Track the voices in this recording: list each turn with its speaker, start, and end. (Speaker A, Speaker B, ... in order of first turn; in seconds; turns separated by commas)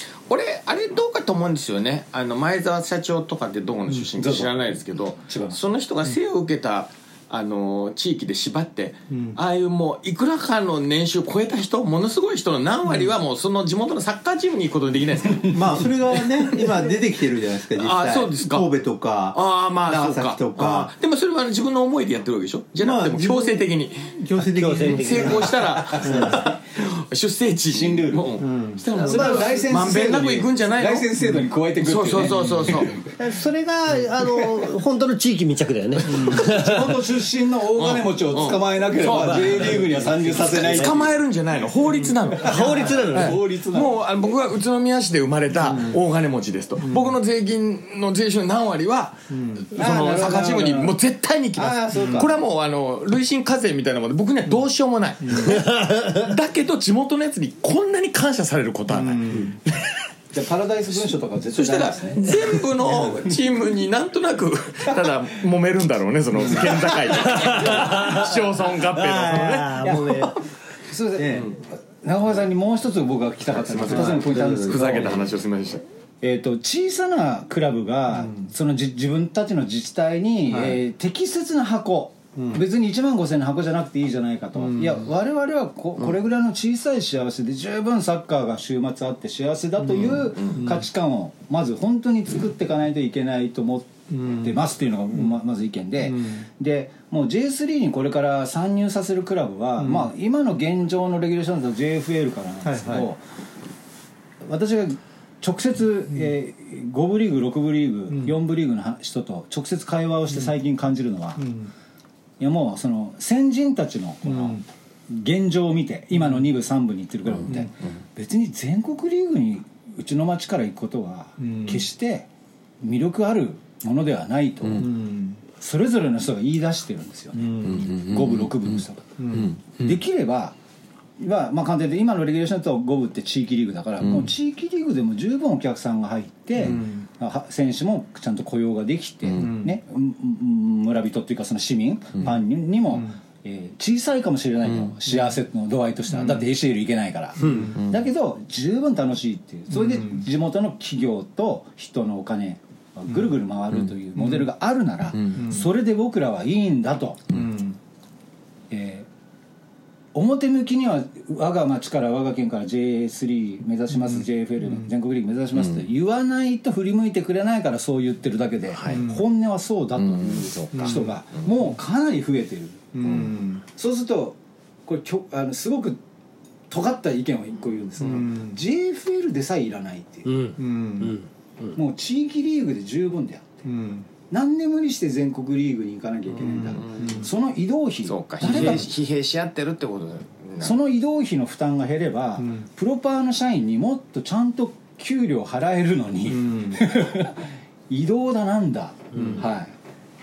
Speaker A: 0.3-16.8, Speaker B: 3.9-5.6, Speaker C: 9.1-9.4, Speaker C: 15.5-20.9, Speaker A: 17.8-18.7, Speaker A: 19.3-24.0, Speaker C: 22.8-26.5, Speaker D: 24.5-26.1, Speaker A: 24.8-31.1, Speaker B: 27.7-28.3, Speaker C: 28.4-29.8, Speaker B: 29.0-33.2, Speaker A: 31.8-32.9, Speaker C: 32.2-32.9, Speaker D: 33.2-36.9, Speaker B: 36.1-41.1, Speaker A: 37.8-39.9, Speaker D: 39.0-41.0, Speaker A: 40.4-59.2, Speaker B: 42.4-44.0, Speaker D: 42.4-43.4, Speaker C: 45.6-46.0, Speaker C: 46.8-47.2, Speaker C: 49.3-49.7, Speaker B: 49.7-51.0, Speaker B: 51.5-52.4, Speaker C: 51.9-52.3, Speaker C: 55.2-55.6, Speaker C: 58.9-59.6, Speaker B: 60.3-63.3, Speaker A: 60.9-70.4, Speaker D: 67.3-68.2, Speaker D: 68.8-70.3, Speaker B: 69.8-70.1, Speaker B: 70.9-75.4, Speaker C: 71.2-71.5, Speaker A: 73.5-75.8, Speaker C: 73.9-75.2, Speaker B: 76.2-103.2, Speaker C: 78.1-78.5, Speaker C: 80.5-80.8, Speaker C: 82.3-82.6, Speaker C: 84.5-85.1, Speaker A: 89.9-90.7, Speaker C: 90.5-90.8, Speaker C: 94.1-94.6, Speaker C: 95.1-95.4, Speaker C: 96.0-96.4, Speaker C: 99.8-100.1, Speaker C: 102.6-103.1, Speaker B: 104.4-111.4, Speaker C: 106.1-106.3, Speaker C: 108.1-108.4, Speaker C: 111.4-111.7, Speaker B: 112.4-122.3, Speaker C: 114.2-114.7, Speaker C: 116.1-116.5, Speaker C: 117.5-117.7, Speaker C: 121.4-121.9, Speaker B: 122.8-124.9, Speaker C: 124.8-125.4, Speaker B: 125.6-129.2, Speaker C: 127.3-127.9, Speaker A: 127.6-130.0, Speaker C: 129.2-129.6, Speaker B: 129.8-130.6, Speaker B: 131.2-157.2, Speaker A: 134.0-134.3, Speaker C: 136.6-137.1, Speaker C: 139.3-139.8, Speaker A: 144.6-144.9, Speaker C: 146.1-146.5, Speaker C: 147.4-147.8, Speaker A: 147.8-148.0, Speaker C: 149.7-150.3, Speaker C: 153.1-153.4, Speaker C: 154.2-154.5, Speaker C: 155.4-155.7, Speaker C: 157.3-157.8, Speaker B: 158.7-159.1, Speaker B: 160.1-173.1, Speaker C: 163.9-164.9, Speaker A: 165.5-165.8, Speaker A: 168.7-169.0, Speaker C: 168.9-169.2, Speaker A: 170.0-170.9, Speaker C: 170.7-171.8, Speaker C: 172.9-173.6, Speaker B: 173.6-176.0, Speaker B: 176.7-180.3, Speaker C: 178.0-178.6, Speaker D: 180.3-181.8, Speaker C: 180.6-181.2, Speaker B: 181.8-183.5, Speaker C: 183.6-184.1, Speaker B: 184.3-188.9, Speaker C: 186.3-187.3, Speaker A: 186.5-187.2, Speaker A: 188.0-190.7, Speaker C: 188.4-188.9, Speaker B: 190.6-199.7, Speaker C: 192.4-192.7, Speaker C: 196.3-196.8